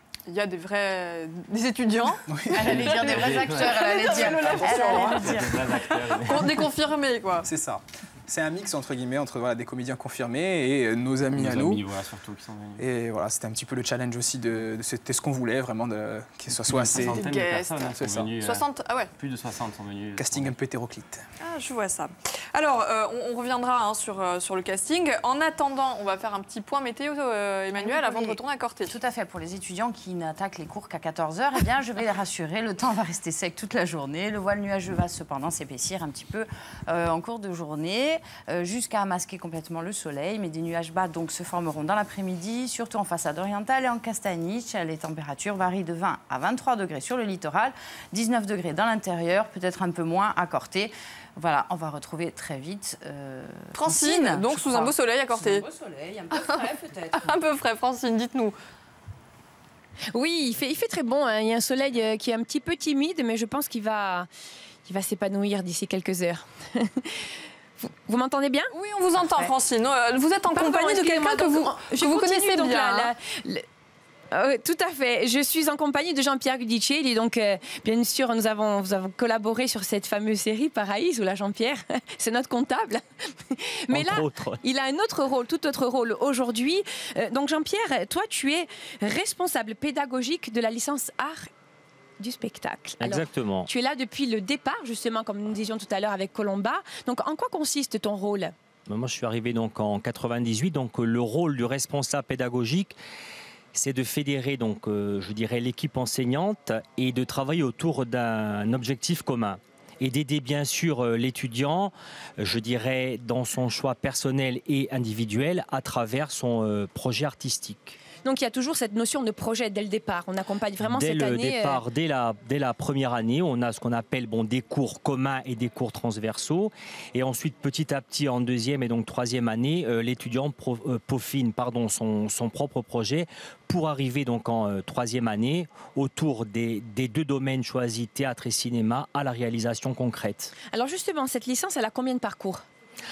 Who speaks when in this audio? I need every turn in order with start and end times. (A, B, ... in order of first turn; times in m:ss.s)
0:00.3-0:07.5 A
0:02.3-0:02.8 B
0:02.5-0:05.7 C
0:02.7-0:06.6 D
0:04.6-0:04.9 B
0:07.4-0:11.8 B
0:11.3-0:12.8 D
0:12.8-0:17.3 B
0:16.5-0:20.6 D
0:17.0-0:19.1 A
0:17.9-0:18.3 B
0:20.2-0:21.2 B
0:21.4-0:28.9 A
0:27.8-0:57.3 C
0:53.8-0:55.6 A
0:56.3-0:58.5 A
1:00.1-1:04.3 E
1:04.8-1:07.3 E
1:07.8-1:08.7 E
1:08.7-1:13.1 A
1:09.2-1:09.5 C
1:10.5-1:13.6 E
1:14.3-1:31.5 E
1:23.9-1:24.6 F
1:32.2-1:38.5 E
1:33.0-1:33.7 F
1:38.9-1:43.0 F
1:43.7-1:58.0 F
1:58.2-2:01.8 E
2:00.8-2:20.5 F
2:20.7-2:22.6 E